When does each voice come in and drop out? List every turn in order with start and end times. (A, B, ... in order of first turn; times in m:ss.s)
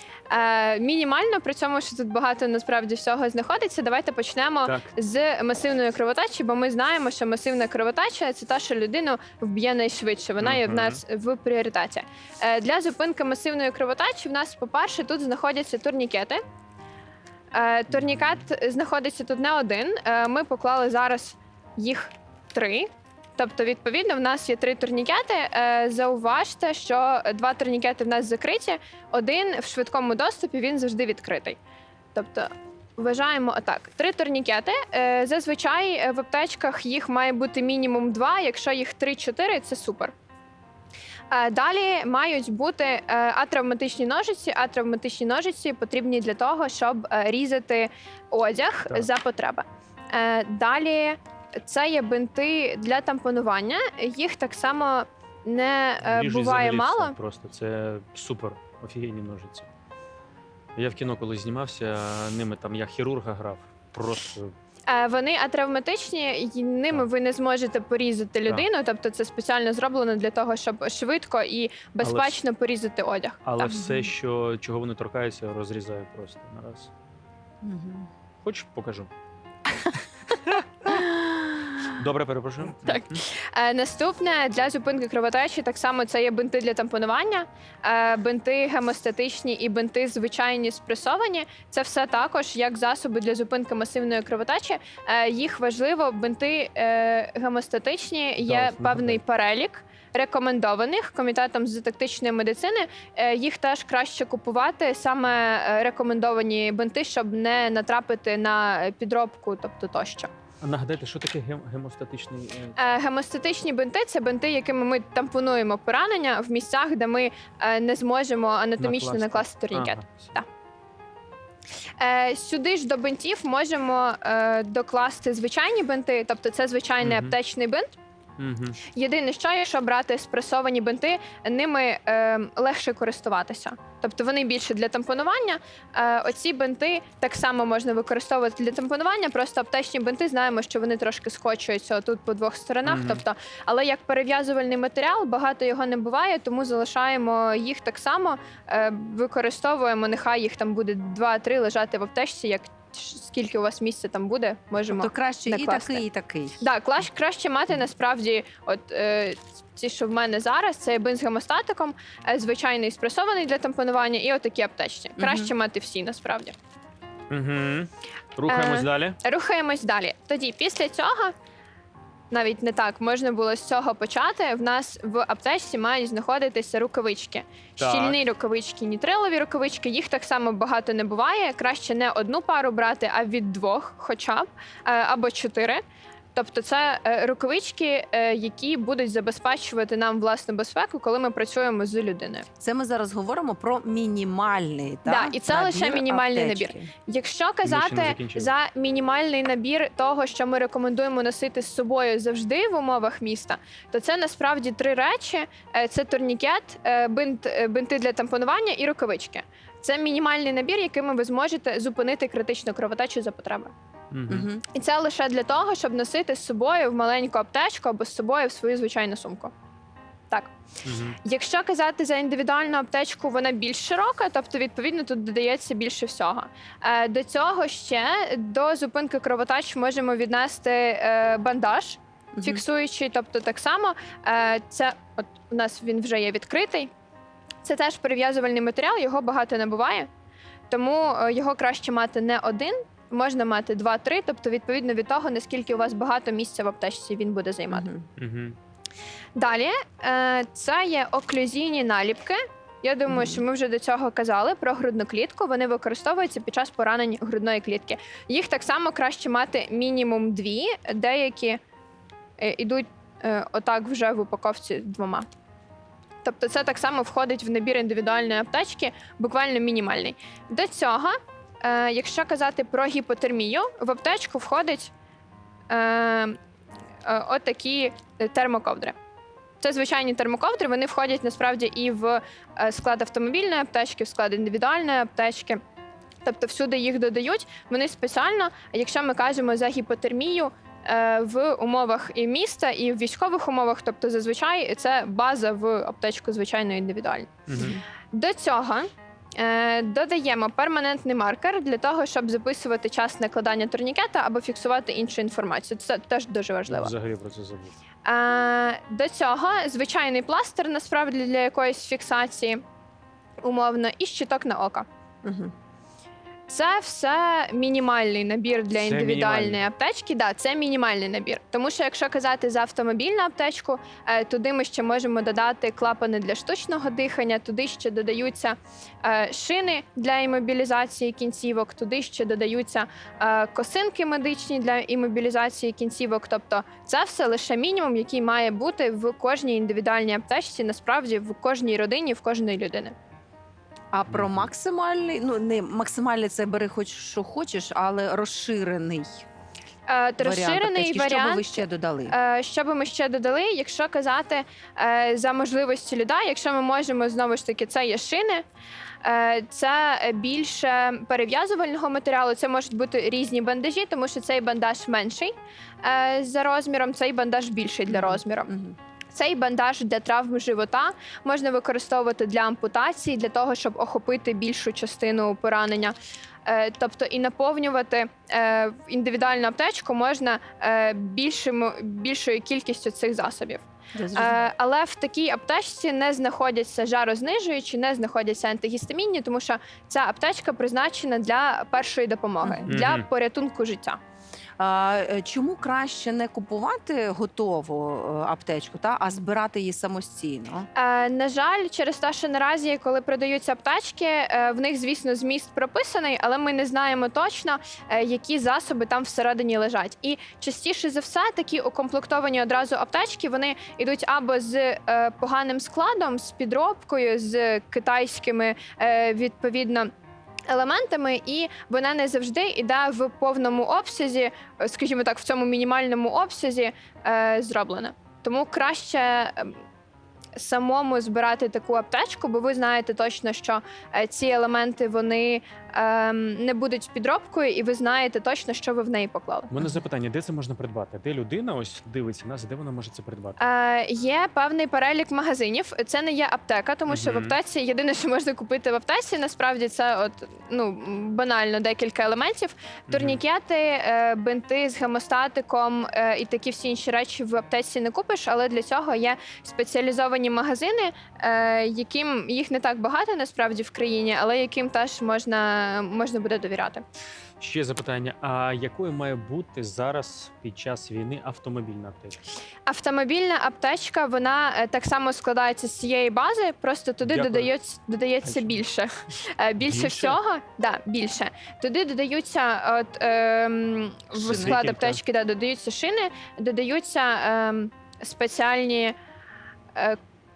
0:00.3-0:16.4 A
0:04.6-0:04.9 B
0:10.4-0:11.0 B
0:17.5-0:31.6 A
0:17.9-0:18.4 B
0:32.1-0:40.1 A
0:41.3-0:57.2 A
0:56.0-0:59.7 B
1:00.8-1:04.5 B
1:04.9-1:13.4 A
1:12.0-1:12.4 B
1:13.4-1:16.9 B
1:13.6-1:14.1 C
1:17.6-1:18.1 C
1:18.4-1:19.1 B
1:20.9-1:21.7 C
1:21.9-1:23.2 B
1:22.8-1:50.3 A
1:38.4-1:39.2 B
1:50.6-1:52.8 B
1:52.8-2:00.5 A
1:58.8-2:00.3 B
2:02.0-2:08.0 A
2:07.0-2:07.4 B
2:08.4-2:08.8 B
2:08.9-2:36.0 A
2:22.8-2:23.2 B
2:34.8-2:36.6 C
2:36.6-2:46.6 A
2:45.2-2:45.5 C
2:47.3-2:49.2 B
2:48.5-2:51.3 A
2:52.3-3:05.8 A
2:57.8-2:58.2 B
3:06.3-3:12.5 A
3:12.6-3:16.9 C
3:15.0-3:33.7 A
3:17.6-3:18.5 B
3:34.1-3:34.5 B
3:34.3-3:34.6 C
3:34.7-3:39.5 A
3:40.8-3:41.2 B
3:41.2-3:56.9 A
3:52.4-3:52.6 C
3:57.6-4:00.1 A
4:00.7-4:07.9 A
4:07.7-4:08.1 C
4:08.2-4:08.6 B
4:09.4-4:21.6 A
4:13.1-4:13.4 C
4:22.4-4:25.3 A
4:26.2-4:34.9 A
4:35.7-4:36.4 A
4:37.0-4:39.0 A
4:39.6-4:45.6 A
4:46.2-5:06.9 A
4:57.5-4:57.8 B
4:57.6-4:57.8 C
5:06.7-5:07.8 B
5:08.0-5:12.6 A
5:13.4-5:14.9 A
5:15.2-5:15.5 C
5:16.5-5:43.0 A
5:18.7-5:19.6 B
5:43.9-5:49.2 C
5:44.1-5:44.5 B
5:49.9-5:58.4 A
5:50.2-5:52.2 C
5:59.0-6:08.5 A
6:07.9-6:08.8 C
6:09.1-6:15.9 A
6:16.4-6:34.0 A
6:24.0-6:24.5 C
6:32.4-6:32.7 C
6:32.7-6:33.1 B
6:34.6-6:40.7 C
6:40.8-6:59.9 A
7:00.5-7:09.6 A
7:10.4-7:19.5 A
7:19.5-7:23.4 B
7:23.4-7:46.8 A
7:26.9-7:27.4 B
7:32.9-7:33.2 B
7:47.4-7:52.2 B
7:52.7-8:08.9 A
7:57.0-7:57.5 B
7:58.2-7:58.6 B
7:59.6-8:00.2 B
8:04.1-8:05.0 B
8:04.3-8:04.6 C